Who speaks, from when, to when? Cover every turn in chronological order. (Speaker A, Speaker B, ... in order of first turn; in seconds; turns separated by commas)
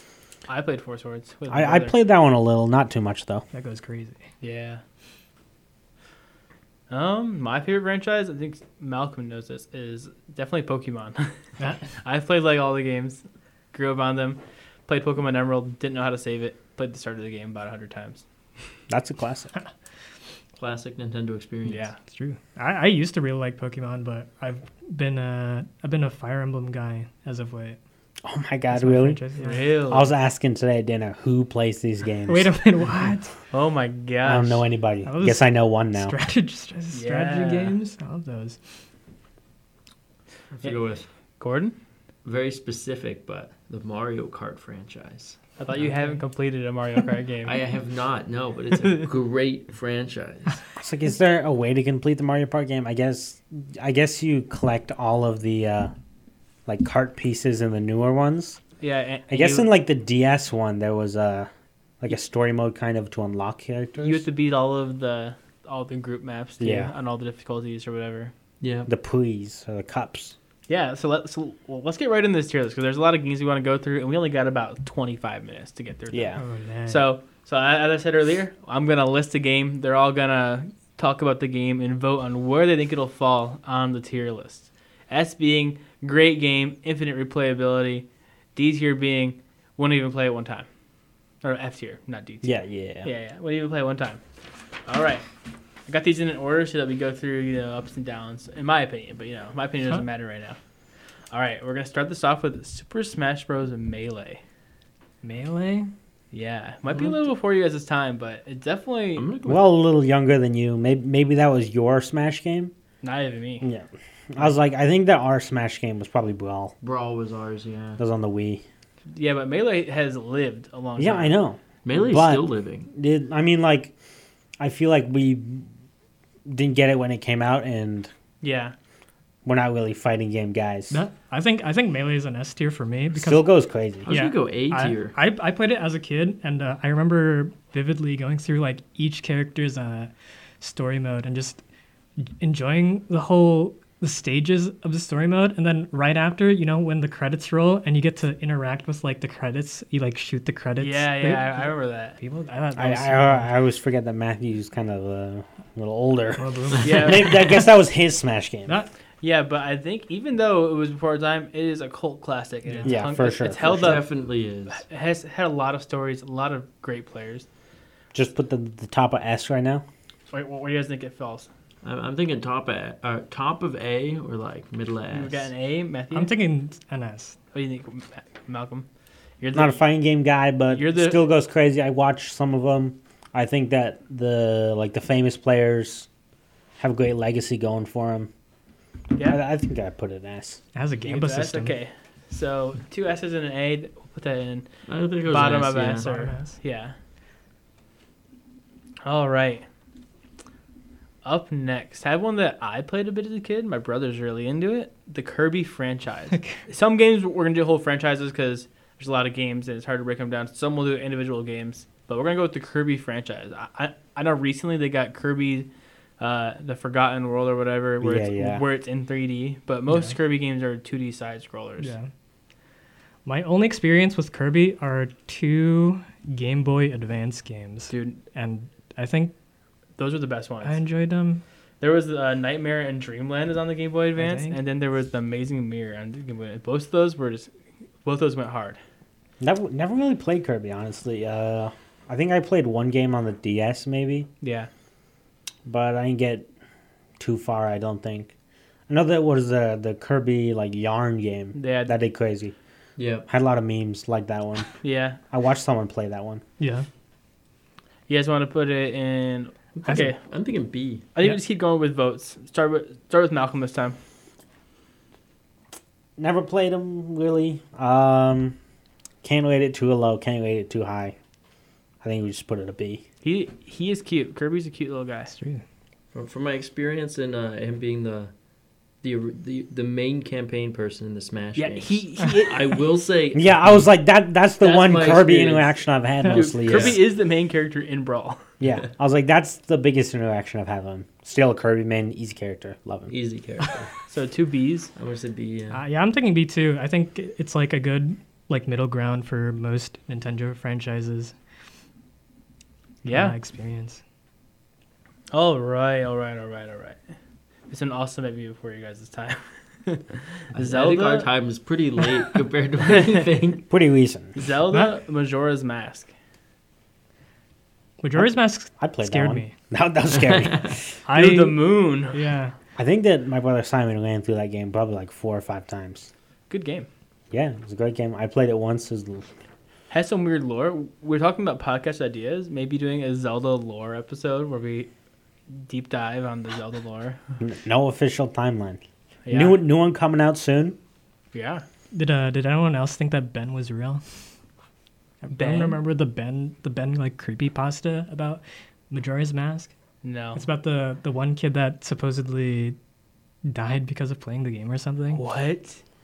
Speaker A: 0.5-1.9, Speaker B: 1.5-3.4, Speaker C: 3.5-4.2, Speaker A: 4.4-4.8, Speaker A: 6.9-11.3, Speaker C: 11.6-11.8, Speaker A: 11.9-13.2, Speaker A: 13.7-18.2, Speaker B: 18.9-19.5, Speaker D: 20.6-21.9, Speaker A: 21.6-21.9, Speaker C: 22.1-27.8, Speaker B: 28.2-29.2, Speaker C: 28.7-29.6, Speaker A: 29.4-30.1, Speaker B: 29.9-32.5, Speaker C: 32.3-33.3, Speaker A: 33.5-34.6, Speaker B: 34.2-36.1, Speaker C: 35.0-38.6, Speaker A: 36.9-37.8, Speaker D: 40.5-41.0, Speaker A: 41.4-41.7, Speaker D: 42.2-45.4, Speaker A: 45.6-47.6, Speaker C: 45.7-46.2, Speaker D: 47.4-50.6, Speaker A: 48.8-49.1, Speaker B: 50.8-55.9, Speaker B: 56.6-58.6, Speaker A: 58.8-59.7, Speaker B: 59.3-61.5, Speaker B: 62.0-64.2, Speaker A: 64.0-68.3, Speaker B: 66.6-66.9, Speaker D: 68.6-68.9, Speaker B: 68.8-70.3, Speaker A: 70.7-90.7, Speaker B: 76.1-76.4, Speaker C: 76.4-77.1, Speaker A: 91.4-94.2, Speaker B: 92.4-93.1, Speaker A: 94.9-95.2, Speaker A: 95.9-100.6, Speaker A: 101.3-104.4, Speaker C: 105.2-105.9, Speaker A: 106.3-109.3, Speaker D: 109.2-109.6, Speaker B: 109.5-112.7, Speaker A: 113.0-113.6, Speaker B: 113.6-116.7, Speaker D: 116.8-118.0, Speaker B: 118.0-118.6, Speaker A: 119.1-121.3, Speaker B: 121.0-123.9, Speaker D: 121.8-122.9, Speaker B: 124.6-125.7, Speaker B: 126.5-128.1, Speaker A: 128.4-128.7, Speaker B: 129.4-131.0, Speaker C: 130.9-133.5, Speaker B: 133.1-134.1, Speaker D: 134.0-135.1, Speaker C: 134.1-141.6, Speaker C: 142.2-153.5, Speaker A: 150.8-152.2, Speaker B: 152.8-158.7, Speaker C: 156.4-157.4, Speaker A: 156.8-157.3, Speaker A: 159.2-164.1, Speaker C: 162.7-163.0, Speaker B: 162.8-164.0, Speaker D: 163.5-164.8, Speaker A: 164.7-167.4, Speaker B: 168.1-169.8, Speaker A: 170.3-171.5, Speaker D: 171.8-175.5, Speaker A: 175.1-176.4, Speaker C: 176.1-177.3, Speaker A: 177.5-178.8, Speaker A: 179.4-179.8, Speaker B: 179.5-186.1, Speaker A: 180.7-181.2, Speaker B: 186.8-188.3, Speaker A: 189.1-189.4, Speaker B: 189.2-190.6, Speaker C: 190.7-191.8, Speaker A: 191.0-194.7, Speaker D: 194.9-196.1, Speaker A: 195.2-196.9, Speaker C: 196.0-196.6, Speaker A: 199.0-199.6, Speaker A: 201.2-215.7, Speaker C: 206.3-206.6, Speaker A: 216.2-221.9, Speaker B: 218.0-218.6, Speaker C: 221.8-222.1, Speaker C: 223.2-229.3, Speaker A: 227.9-228.2, Speaker A: 230.0-230.8, Speaker C: 230.6-231.4, Speaker A: 231.8-237.5, Speaker C: 234.2-234.6, Speaker A: 238.0-238.8, Speaker B: 239.4-244.3, Speaker A: 244.4-244.7, Speaker B: 245.7-246.5, Speaker B: 247.2-248.3, Speaker B: 248.9-252.5, Speaker A: 251.5-251.9, Speaker D: 253.0-253.3, Speaker B: 253.3-254.7, Speaker A: 254.8-255.2, Speaker B: 255.3-256.4, Speaker C: 256.6-256.9, Speaker A: 258.1-260.2, Speaker D: 259.7-261.1, Speaker A: 261.1-264.0, Speaker B: 266.2-268.6, Speaker B: 269.2-271.1, Speaker B: 272.0-273.0, Speaker A: 273.2-275.3, Speaker C: 275.3-275.6, Speaker D: 276.1-278.3, Speaker D: 279.0-283.9, Speaker A: 281.6-282.8, Speaker B: 283.3-287.0, Speaker D: 284.6-285.7, Speaker A: 286.3-288.4, Speaker D: 286.3-287.0, Speaker B: 288.6-293.1, Speaker D: 293.1-293.9, Speaker A: 294.1-294.9, Speaker D: 294.9-295.8, Speaker C: 295.7-301.3, Speaker C: 303.0-304.0, Speaker A: 303.0-303.4, Speaker A: 305.3-307.0, Speaker A: 307.7-311.3, Speaker D: 310.5-313.6, Speaker A: 312.8-313.2, Speaker B: 313.7-314.4, Speaker A: 314.4-316.1, Speaker C: 318.0-319.5, Speaker B: 318.1-320.8, Speaker D: 320.1-320.7, Speaker C: 321.1-322.5, Speaker A: 321.1-322.2, Speaker B: 322.8-326.1, Speaker A: 326.5-326.9, Speaker B: 327.3-329.3, Speaker A: 329.9-334.9, Speaker A: 335.5-337.2, Speaker B: 337.4-340.8, Speaker A: 339.2-339.6, Speaker A: 341.3-341.6, Speaker C: 341.9-344.0, Speaker C: 345.2-349.7, Speaker A: 345.3-345.8, Speaker A: 350.0-350.4, Speaker C: 350.3-352.8, Speaker C: 353.4-355.2, Speaker A: 355.1-355.8